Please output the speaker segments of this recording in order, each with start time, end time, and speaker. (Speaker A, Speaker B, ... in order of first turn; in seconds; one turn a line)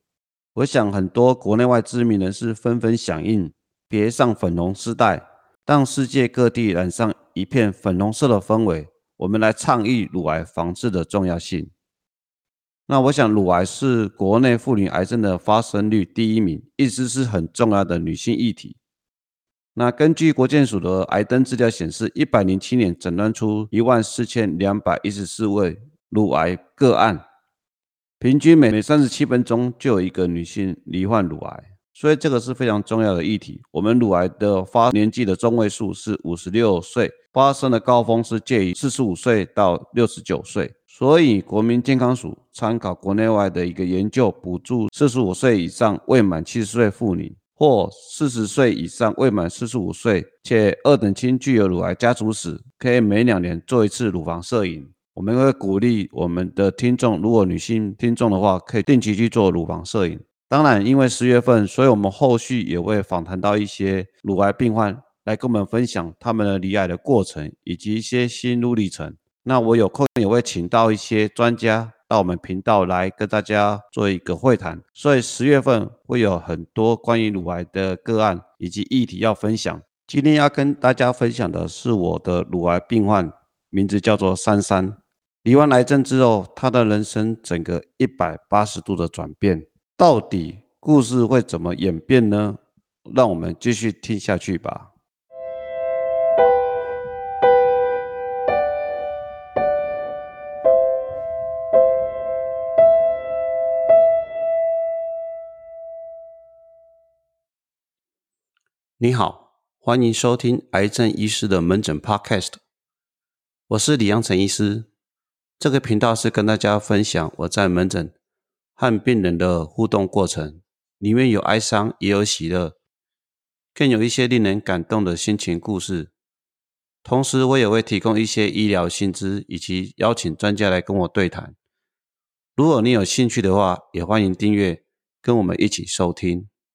Speaker A: 0.5-11.7
Speaker A: 12.9-18.8
Speaker A: 19.7-27.2
Speaker A: 28.2-94.9
Speaker A: 109.0-112.6
Speaker A: 113.7-114.9
Speaker A: 115.6-118.1
Speaker A: 118.8-122.7
Speaker A: 123.7-126.1
Speaker A: 127.0-131.6
Speaker A: 132.6-136.5